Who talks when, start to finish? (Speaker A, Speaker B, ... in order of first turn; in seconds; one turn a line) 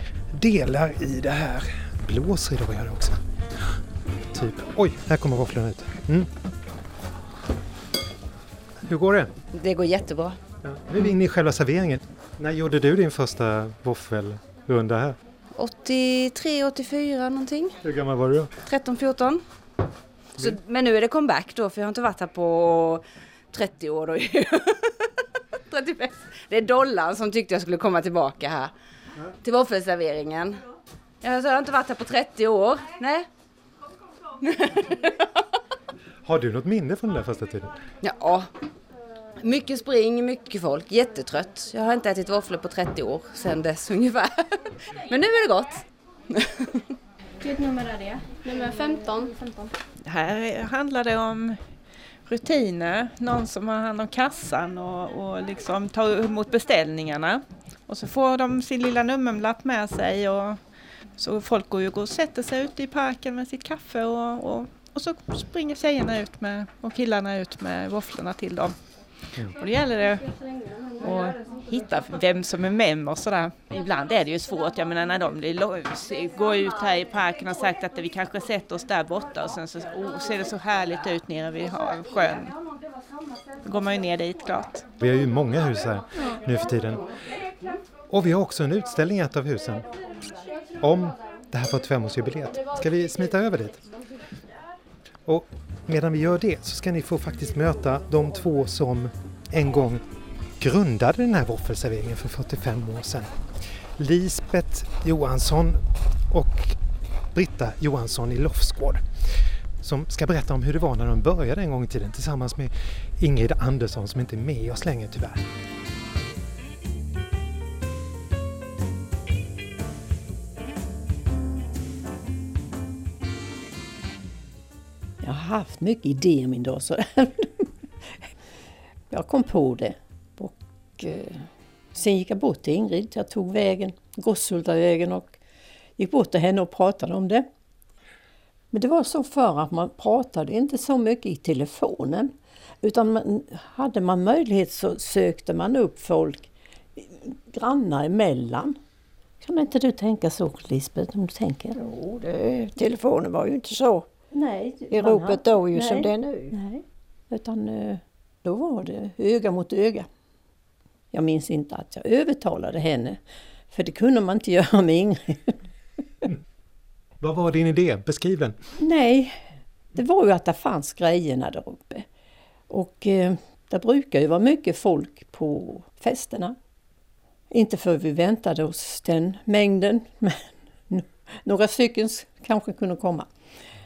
Speaker A: 0.3-3.7
Speaker A: 4.2-6.3
Speaker A: 8.8-9.3
Speaker B: 9.5-10.4
Speaker A: 10.6-15.2
Speaker B: 15.5-17.8
Speaker A: 17.8-18.5
Speaker B: 18.6-19.4
Speaker B: 20.4-25.1
Speaker B: 25.7-28.7
Speaker B: 29.3-30.6
Speaker B: 31.2-33.2
Speaker B: 34.4-35.2
Speaker A: 36.2-37.7
Speaker B: 38.0-38.5
Speaker B: 39.4-45.8
Speaker B: 46.3-46.8
Speaker C: 47.4-49.4
Speaker D: 50.0-51.6
Speaker D: 52.2-60.6
Speaker D: 61.2-68.8
Speaker D: 69.5-70.4
Speaker D: 71.0-82.5
Speaker D: 83.6-84.8
Speaker A: 85.0-87.1
Speaker A: 88.1-89.8
Speaker A: 90.8-93.8
Speaker A: 95.2-100.0
Speaker A: 100.6-103.3
Speaker A: 104.0-106.8
Speaker A: 107.3-109.0
Speaker A: 109.8-115.4
Speaker E: 125.2-128.2
Speaker E: 129.1-135.4
Speaker E: 136.0-137.5
Speaker E: 138.7-148.8
Speaker E: 149.4-151.8
Speaker F: 151.8-154.1
Speaker E: 154.3-160.1
Speaker F: 154.9-156.6
Speaker E: 161.1-163.2
Speaker E: 163.7-165.6
Speaker A: 167.2-168.6
Speaker E: 168.8-172.1
Speaker E: 172.7-176.6
Speaker E: 177.5-183.3